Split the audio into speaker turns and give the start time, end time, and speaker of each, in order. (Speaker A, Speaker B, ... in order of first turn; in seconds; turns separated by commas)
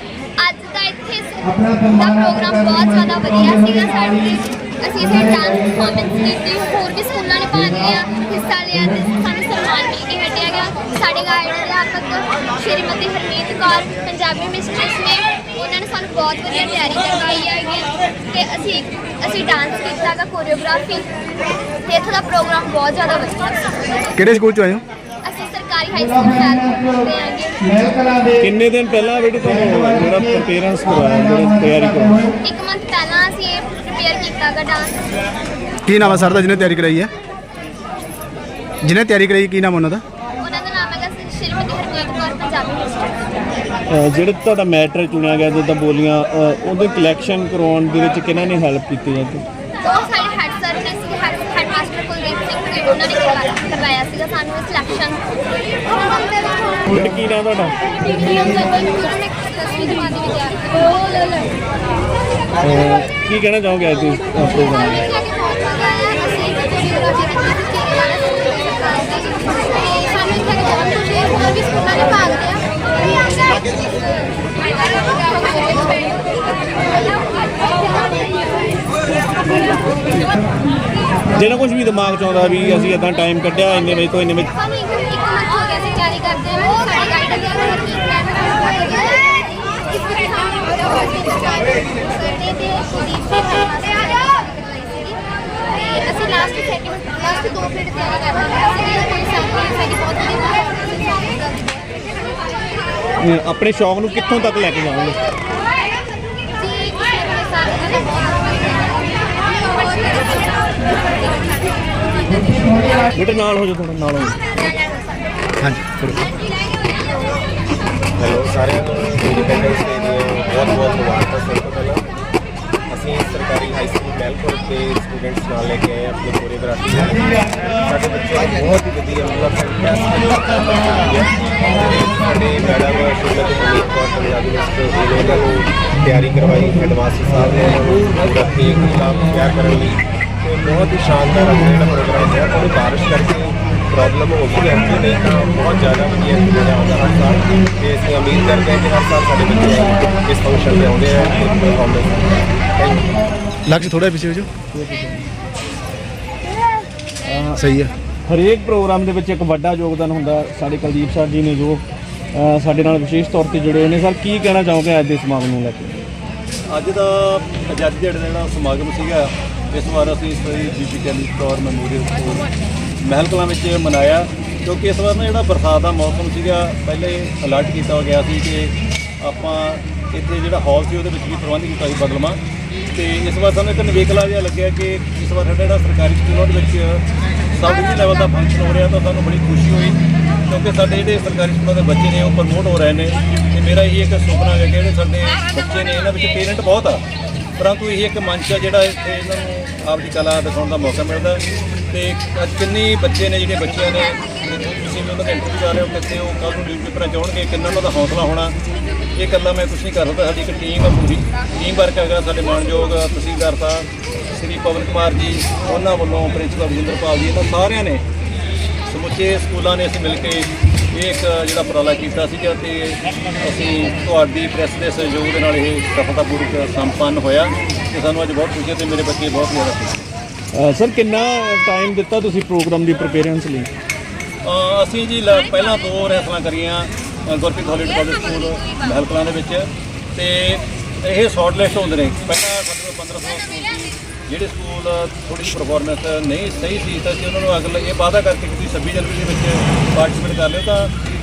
Speaker A: 0.3-21.1, Speaker A: 21.8-24.1, Speaker B: 24.1-24.8, Speaker A: 25.2-28.3, Speaker C: 28.4-32.3, Speaker A: 32.4-35.2, Speaker B: 35.9-37.1, Speaker B: 38.8-40.0, Speaker A: 40.4-43.4, Speaker C: 43.9-49.4, Speaker A: 49.8-55.3, Speaker A: 55.9-56.6, Speaker C: 56.9-57.8, Speaker A: 57.9-61.5, Speaker C: 62.6-65.0, Speaker A: 64.8-78.7, Speaker C: 81.3-84.5, Speaker A: 84.5-101.8, Speaker C: 103.2-105.3, Speaker A: 106.4-110.6, Speaker C: 113.1-114.4, Speaker B: 115.6-116.1, Speaker D: 118.2-122.1, Speaker D: 122.9-152.2, Speaker D: 152.8-153.2, Speaker B: 153.7-154.5, Speaker C: 154.7-155.3, Speaker C: 157.2-157.7, Speaker B: 157.6-157.9, Speaker C: 158.2-166.0, Speaker E: 166.7-172.5, Speaker E: 173.0-182.4, Speaker E: 182.9-197.0, Speaker E: 197.6-208.5, Speaker E: 209.2-218.0, Speaker E: 218.8-230.0, Speaker C: 230.5-233.7, Speaker E: 234.4-250.9